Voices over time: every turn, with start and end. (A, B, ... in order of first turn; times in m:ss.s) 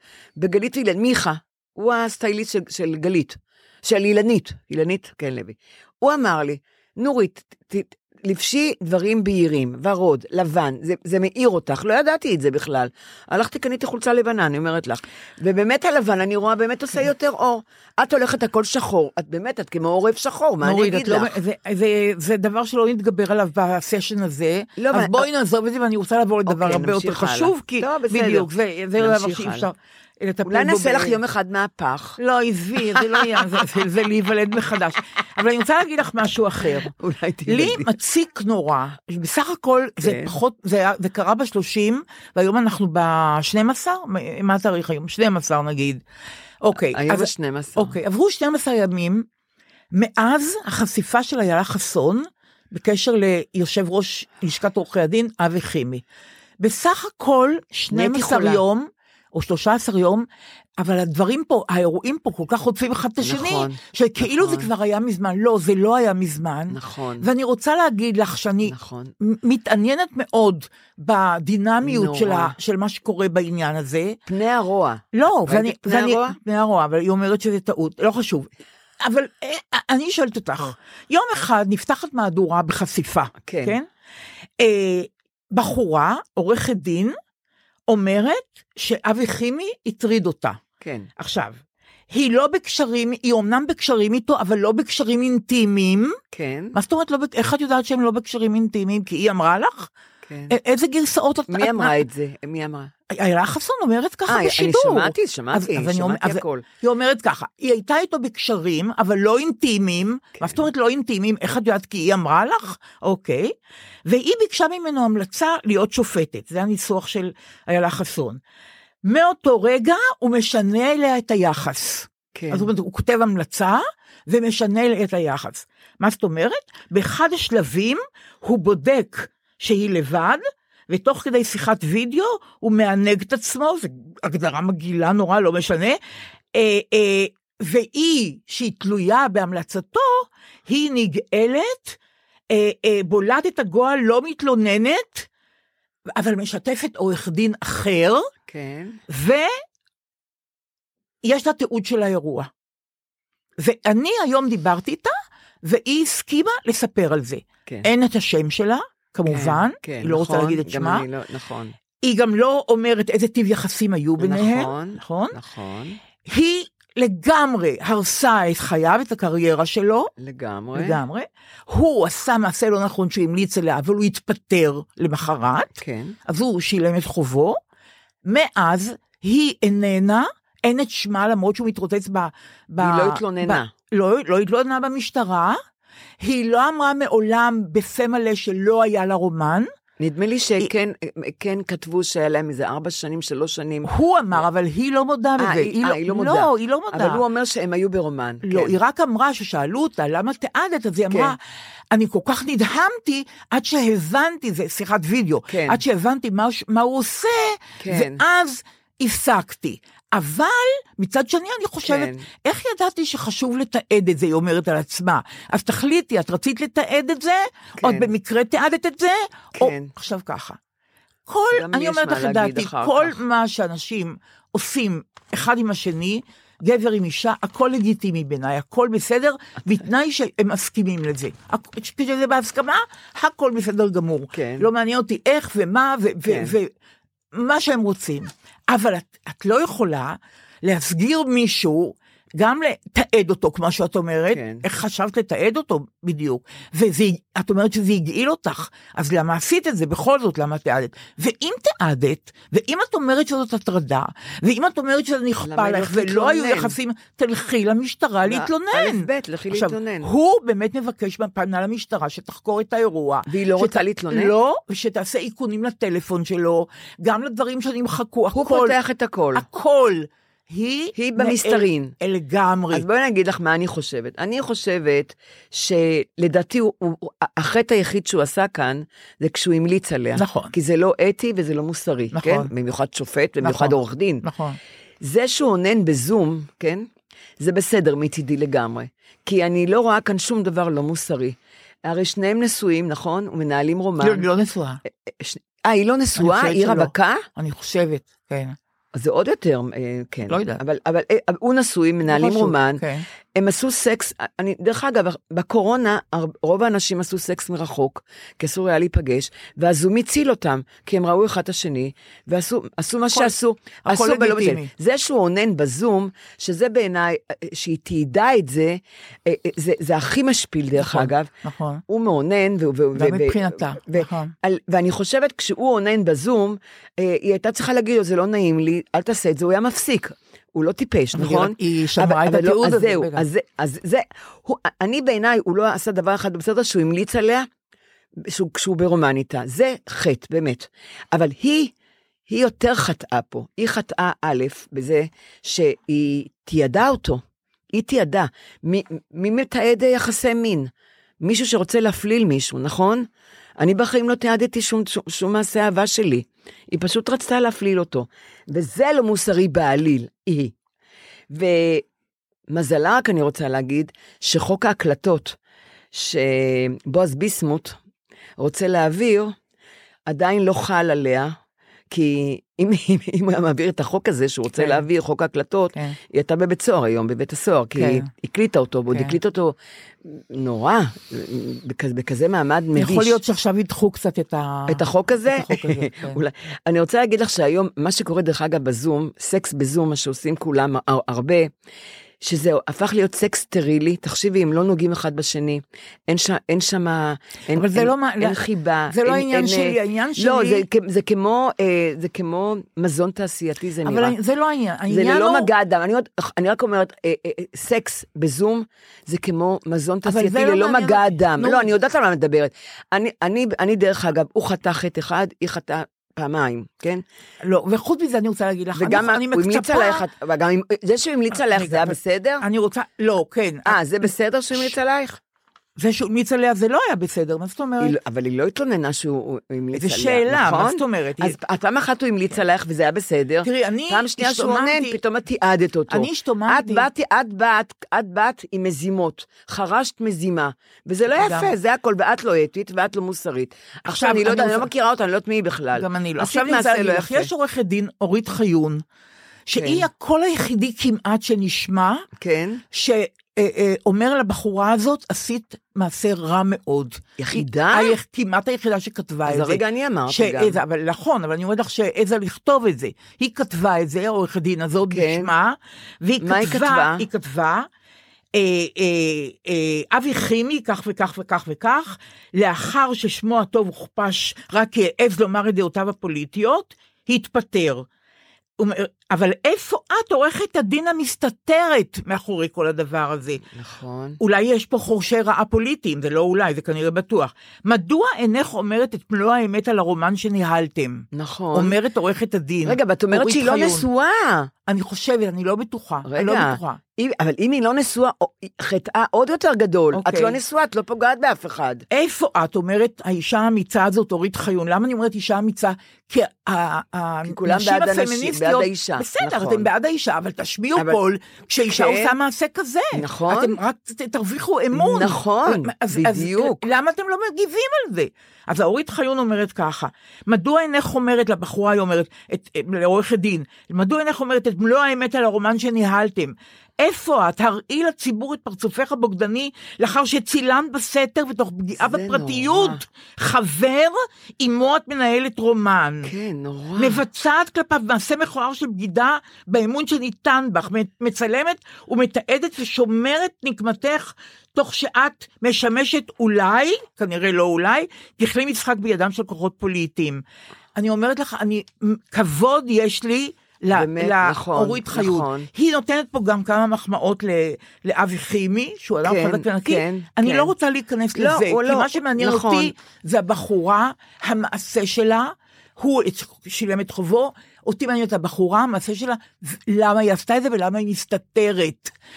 0:00.4-0:21.4 A
0:20.6-0:31.2 B
0:24.8-0:25.3 A
0:26.5-0:29.7 A
0:30.5-0:32.2 A
0:32.2-0:36.9 B
0:32.9-0:33.2 A
0:36.8-0:37.9 A
0:37.5-0:46.0 B
0:40.0-0:40.4 A
0:46.6-0:49.3 B
0:46.9-0:48.0 A
0:49.9-0:56.0 B
0:56.6-1:00.3 B
0:57.9-0:58.6 A
1:00.8-1:14.2 B
1:03.2-1:04.7 A
1:06.7-1:07.3 A
1:08.7-1:09.1 A
1:11.8-1:12.6 A
1:14.3-1:16.4 A
1:15.1-1:18.5 B
1:19.0-1:23.9 B
1:23.4-1:23.8 A
1:24.6-1:27.2 B
1:27.9-1:30.6 B
1:30.8-1:31.1 A
1:31.2-1:31.6 B
1:32.1-1:36.2 B
1:36.3-1:36.8 A
1:36.7-1:39.9 B
1:40.2-1:40.5 A
1:40.5-1:42.0 B
1:41.5-1:42.9 A
1:43.1-1:53.5 B
1:44.3-1:46.6 A
1:54.1-1:58.4 B
1:59.0-2:16.0 B
2:02.3-2:02.7 A
2:16.5-2:22.0 B
2:22.5-2:25.3 B
2:26.2-2:28.3 B
2:28.5-2:29.0 A
2:29.1-2:29.5 B
2:31.2-2:32.5 B
2:33.6-2:41.1 B
2:39.3-2:41.8 A
2:42.0-2:45.4 B
2:44.2-2:46.0 A
2:46.2-2:50.1 B
2:50.2-2:51.0 A
2:50.7-2:55.7 B
2:55.8-2:56.2 A
2:56.3-2:57.6 B
2:58.3-3:05.6 B
3:02.8-3:03.7 A
3:06.2-3:09.7 B
3:10.0-3:14.4 A
3:13.8-3:17.2 B
3:15.4-3:18.8 A
3:18.4-3:21.4 B
3:21.1-3:21.4 A
3:21.9-3:40.6 B
3:25.5-3:25.8 A
3:27.8-3:28.2 A
3:31.8-3:32.3 A
3:37.8-3:38.1 A
3:39.6-3:39.9 A
3:41.3-3:56.7 B
3:41.5-3:43.2 A
3:54.3-3:54.7 A
3:56.2-3:56.5 A
3:57.3-4:28.8 B
4:04.3-4:04.6 A
4:15.4-4:16.8 A
4:18.2-4:20.1 A
4:23.3-4:24.3 A
4:28.3-4:29.4 A
4:29.3-4:32.9 B
4:31.0-4:32.0 A
4:32.7-4:44.2 A
4:40.2-4:40.5 B
4:42.1-4:42.5 B
4:43.4-4:44.6 B
4:45.0-4:46.9 A
4:47.4-4:54.3 A
4:54.0-4:54.8 B
4:55.1-4:57.2 A
4:56.2-4:58.6 B
4:58.9-5:02.8 A
5:00.3-5:00.6 B
5:02.1-5:03.1 B
5:03.3-5:21.3 A
5:13.1-5:14.7 B
5:20.8-5:21.8 B
5:21.9-5:37.5 A
5:23.0-5:24.3 B
5:31.1-5:33.2 B
5:38.2-5:41.7 A
5:42.3-5:47.2 A
5:47.7-5:50.7 A
5:51.2-5:53.1 A
5:53.6-6:00.5 A
6:01.3-6:01.9 A
6:02.5-6:05.4 A
6:05.9-6:07.8 A
6:08.4-6:09.4 A
6:10.1-6:11.4 A
6:11.9-6:23.2 A
6:14.6-6:14.8 B
6:17.8-6:18.1 B
6:18.9-6:19.2 B
6:22.8-6:26.2 B
6:24.7-6:31.5 A
6:32.2-6:44.2 A
6:37.5-6:40.6 B
6:43.8-6:45.5 B
6:44.9-6:57.0 A
6:50.0-6:51.7 B
6:57.4-7:00.1 B
6:58.8-7:02.4 A
7:01.4-7:04.7 B
7:03.7-7:05.2 A
7:05.8-7:08.0 B
7:07.8-7:27.3 A
7:09.8-7:11.4 B
7:13.4-7:15.0 B
7:15.9-7:16.9 B
7:21.2-7:21.5 B
7:23.9-7:24.7 B
7:25.8-7:28.8 B
7:29.5-7:32.1 B
7:29.6-7:29.9 A
7:32.2-7:32.6 A
7:32.7-7:47.7 B
7:37.2-7:38.0 A
7:39.3-7:40.6 A
7:44.9-7:45.3 A
7:46.2-7:47.1 A
7:48.3-7:57.9 B
7:58.6-8:03.4 B
8:03.5-8:04.2 A
8:04.2-8:13.8 B
8:11.1-8:11.8 A
8:12.6-8:14.5 A
8:14.7-8:16.8 B
8:16.0-8:21.9 A
8:19.9-8:20.4 B
8:21.9-8:56.1 B
8:27.2-8:29.7 A
8:31.6-8:32.1 A
8:32.9-8:33.6 A
8:34.7-8:36.7 A
8:51.8-8:52.8 A
8:56.0-8:57.0 A
8:56.8-9:10.2 B
9:10.8-9:31.9 B
9:13.7-9:15.5 A
9:19.0-9:20.5 A
9:21.2-9:22.7 A